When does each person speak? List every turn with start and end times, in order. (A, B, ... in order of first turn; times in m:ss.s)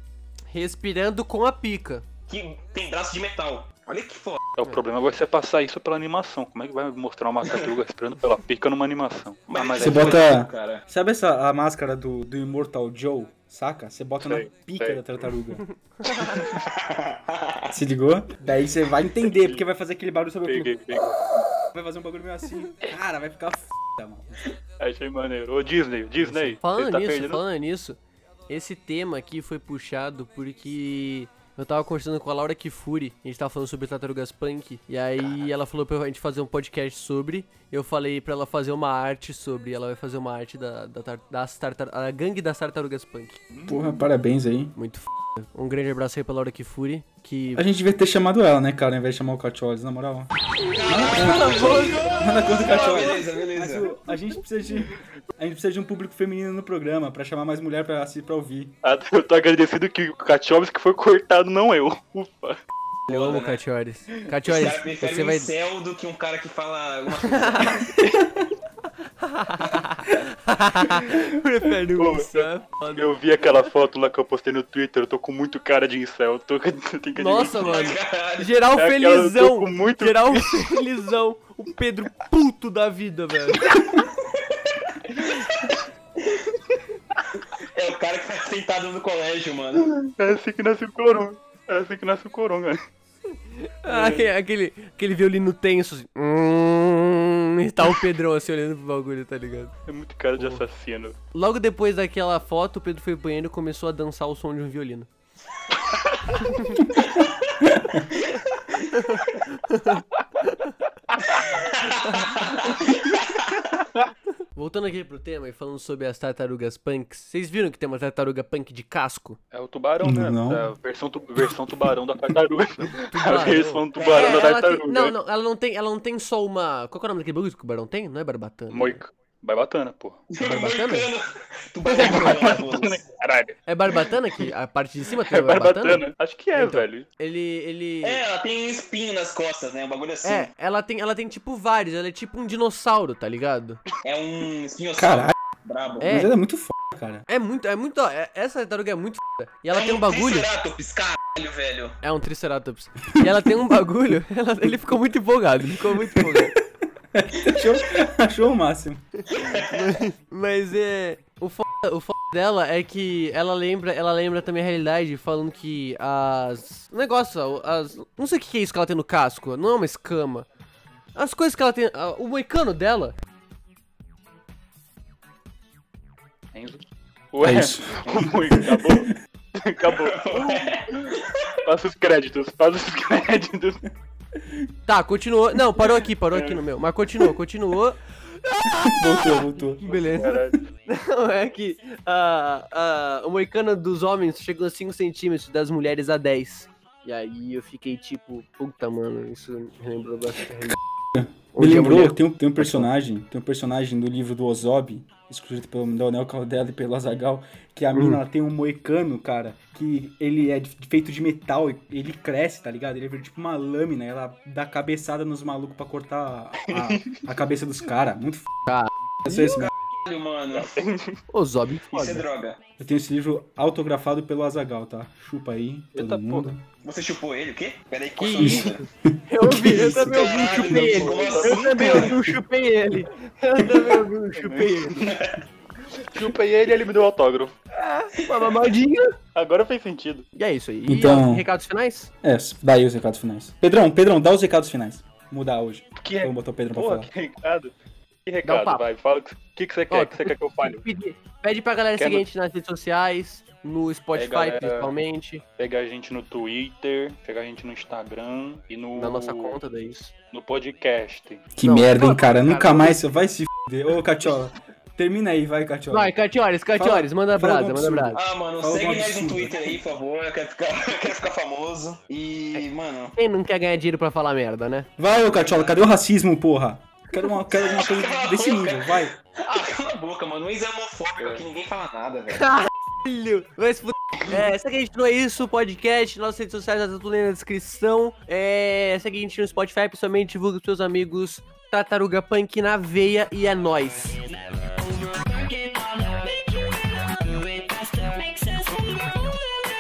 0:00.5-0:02.0 A
0:02.3-0:04.4 B
0:04.6-0:10.2 C
0:09.5-0:10.8 B
0:09.8-0:15.7 D
0:14.2-0:15.0 C
0:16.3-0:17.4 B
0:17.7-0:20.7 D
0:19.3-0:19.6 C
0:20.4-0:21.2 C
0:21.7-0:24.5 D
0:24.8-0:27.4 C
0:26.2-0:43.4 A
0:43.5-0:43.9 C
0:43.7-0:44.7 D
0:44.8-0:47.6 A
0:47.6-0:50.3 D
0:50.6-0:52.5 A
0:50.8-0:53.9 B
0:50.8-0:58.8 D
0:58.8-1:02.6 C
1:03.1-1:03.6 B
1:03.1-1:05.6 A
1:04.3-1:08.0 B
1:07.2-1:07.9 A
1:09.2-1:13.1 A
1:12.0-1:17.9 C
1:17.2-1:23.9 A
1:17.5-1:18.5 B
1:18.7-1:20.6 C
1:24.2-1:24.6 B
1:25.1-1:25.8 B
1:27.5-1:29.9 B
1:29.8-1:32.8 C
1:33.4-1:39.8 A
1:33.9-1:34.3 C
1:39.9-1:41.2 C
1:40.4-1:40.6 A
1:41.3-1:45.1 A
1:45.8-1:46.2 B
1:46.3-1:46.9 A
1:47.0-1:47.4 B
1:48.8-1:50.8 A
1:51.5-1:53.7 B
1:54.5-1:59.4 A
1:59.5-2:05.1 C
2:00.0-2:00.7 D
2:03.1-2:09.0 A
2:04.0-2:04.5 B
2:08.7-2:10.2 C
2:10.3-2:13.0 B
2:10.4-2:11.1 A
2:11.8-2:12.6 A
2:12.0-2:13.6 C
2:13.7-2:16.0 A
2:15.2-2:17.1 C
2:16.6-2:18.2 A
2:18.0-2:20.5 B
2:20.2-2:23.8 A
2:24.0-2:26.1 B
2:25.0-2:25.4 D
2:26.0-2:26.4 A
2:26.1-2:27.2 D
2:27.3-2:30.5 A
2:29.7-2:32.0 B
2:32.0-2:36.5 A
2:36.1-2:36.6 D
2:37.1-2:39.0 D
2:39.3-2:39.7 B
2:39.6-2:50.5 A
2:51.1-2:53.2 A
2:56.5-3:01.1 C
2:57.4-2:59.1 D
2:59.9-3:01.4 B
3:01.6-3:03.8 C
3:04.9-3:20.8 A
3:06.3-3:06.6 C
3:09.0-3:10.0 D
3:10.0-3:10.6 C
3:21.1-3:38.5 D
3:21.5-3:22.9 A
3:28.0-3:28.2 A
3:36.7-3:37.2 C
3:38.7-3:39.7 A
3:39.2-3:39.7 D
3:40.0-3:40.7 B
3:40.5-3:41.2 C
3:41.3-3:42.3 A
3:41.9-3:42.6 B
3:42.8-3:46.6 D
3:45.9-3:46.5 C
3:46.8-3:48.8 B
3:48.2-3:55.0 A
3:48.4-3:50.6 D
3:49.8-3:52.2 B
3:50.6-3:52.1 C
3:54.4-3:55.3 C
3:55.0-3:55.4 B
3:56.0-3:57.6 C
3:57.8-3:59.1 A
3:59.4-4:00.3 C
4:00.4-4:02.1 A
4:00.9-4:01.5 D
4:02.2-4:07.1 D
4:06.0-4:07.7 C
4:08.3-4:10.8 C
4:08.4-4:08.8 A
4:09.9-4:15.4 A
4:12.0-4:12.2 C
4:14.1-4:14.9 C
4:15.6-4:19.6 C
4:19.0-4:20.1 A
4:20.3-4:21.4 C
4:21.6-4:26.2 D
4:21.6-4:23.0 A
4:25.9-4:28.2 A
4:26.8-4:29.8 D
4:28.1-4:33.2 B
4:33.2-4:34.9 A
4:35.0-4:39.2 D
4:35.2-4:35.8 B
4:37.5-4:42.4 B
4:41.2-4:41.4 C
4:42.3-4:54.2 A
4:54.2-4:59.4 E